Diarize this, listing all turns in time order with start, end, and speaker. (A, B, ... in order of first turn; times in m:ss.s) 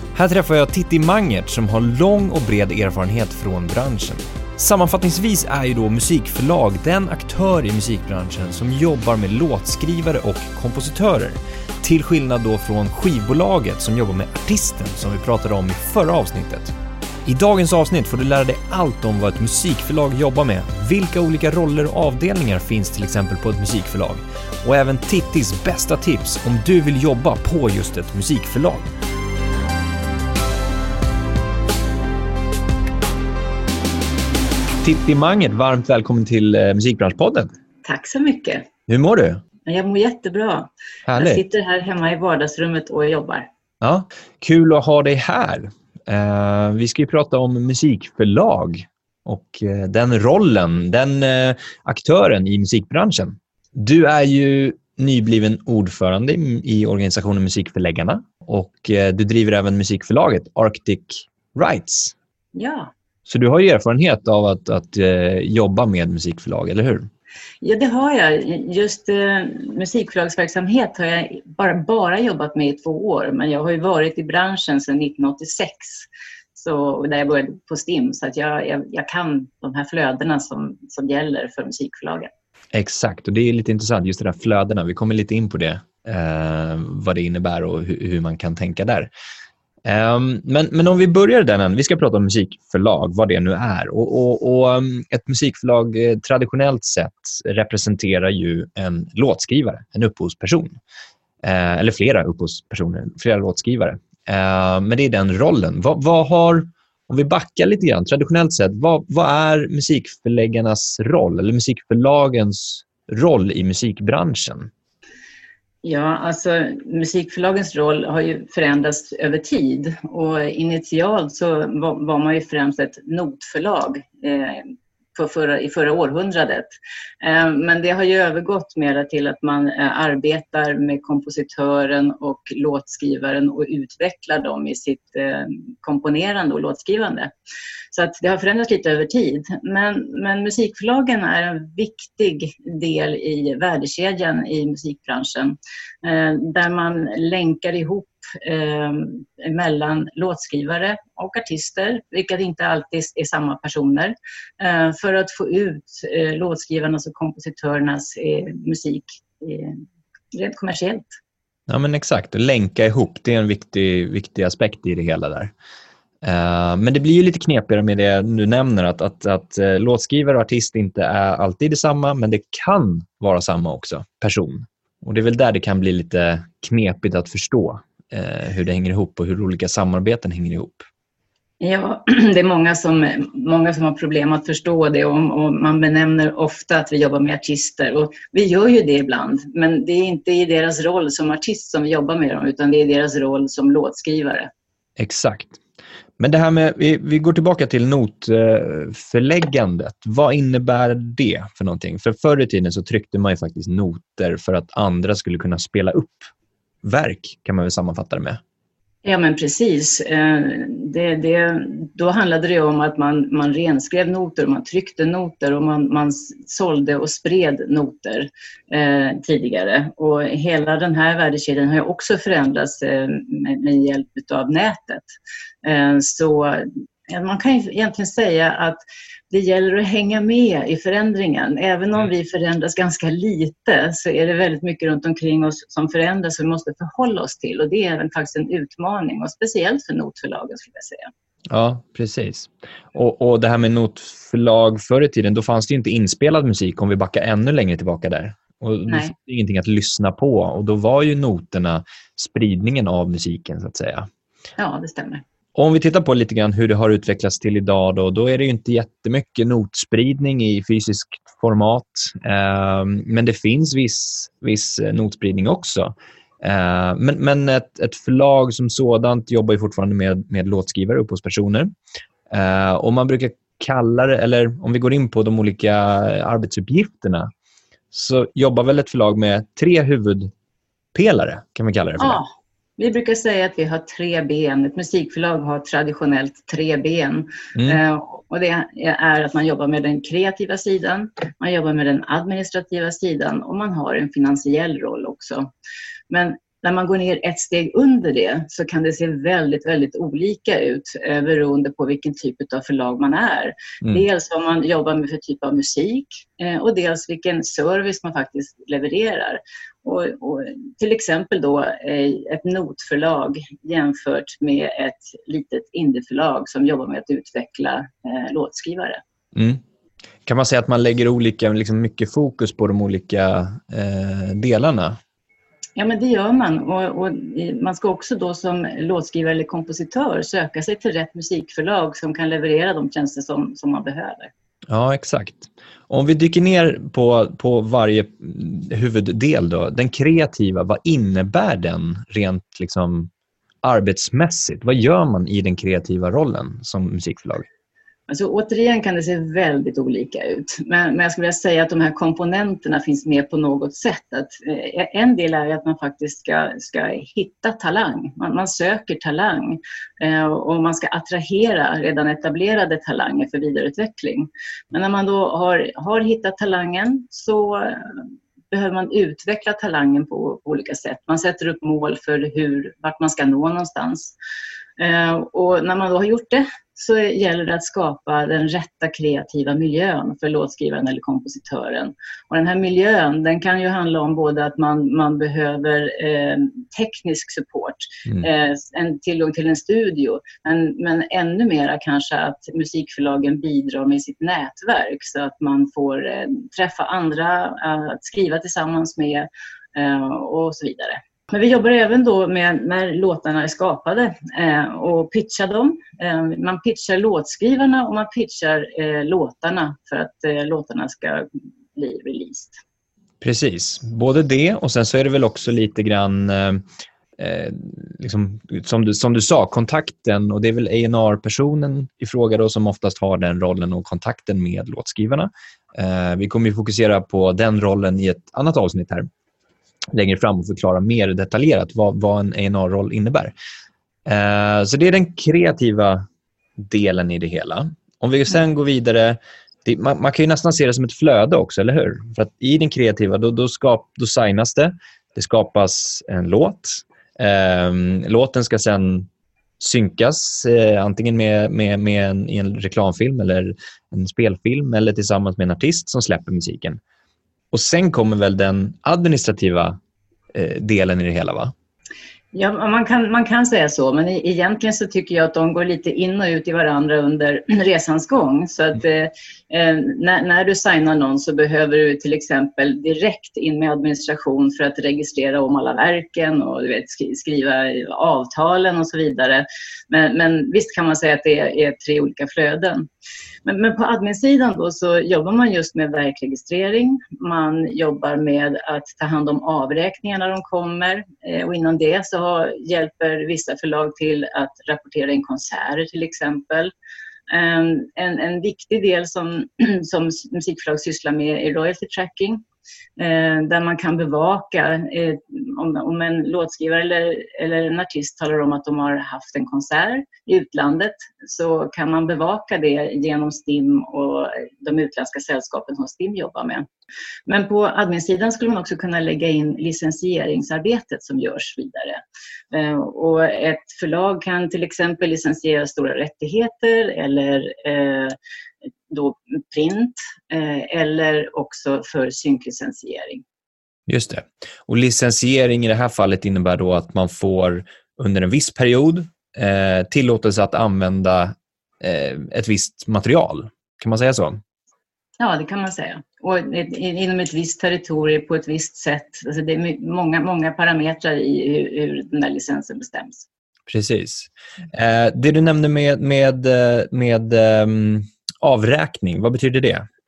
0:00.1-0:28.9 A
0:34.8-0:37.5 A
0:37.8-0:38.7 B
0:38.9-0:39.4 A
0:39.6-0:43.5 B
0:41.1-0:41.4 A
0:43.8-1:02.1 A
1:02.5-1:02.9 B
1:03.2-1:07.1 A
1:07.6-1:22.3 B
1:22.7-1:29.1 A
1:29.8-1:40.8 A
1:41.4-1:54.7 A
1:55.8-2:17.3 B
2:17.9-2:39.8 B
2:40.3-2:41.1 B
2:41.7-2:45.5 A
2:46.2-3:00.8 A
3:01.6-3:14.5 B
3:15.0-3:15.6 A
3:16.2-3:26.3 A
3:26.8-3:28.4 A
3:29.0-4:01.1 B
4:01.5-4:14.1 A
4:08.9-4:09.1 B
4:14.6-4:15.2 B
4:15.5-4:31.7 A
4:32.3-4:37.3 A
4:37.9-4:40.3 A
4:40.9-4:42.2 A
4:42.0-4:55.5 B
4:47.5-4:47.8 A
4:56.1-5:19.0 B
5:19.3-5:19.6 A
5:20.2-5:25.0 A
5:25.8-5:34.3 B
5:34.7-5:43.1 A
5:43.6-5:47.5 A
5:48.1-6:14.1 B
6:14.8-6:52.6 B
6:53.2-6:56.6 A
6:57.2-7:09.1 A
7:09.9-7:13.3 A
7:14.0-7:16.1 A
7:16.6-7:29.1 A
7:29.6-7:36.8 A
7:37.5-7:39.8 A
7:40.3-7:41.5 A
7:42.3-8:02.8 B
8:03.4-8:16.7 B
8:17.3-8:22.4 B
8:23.0-8:36.6 B
8:37.2-8:48.2 B
8:48.9-8:53.2 B
8:53.9-9:04.4 A
9:05.2-9:13.2 B
9:13.7-9:19.9 A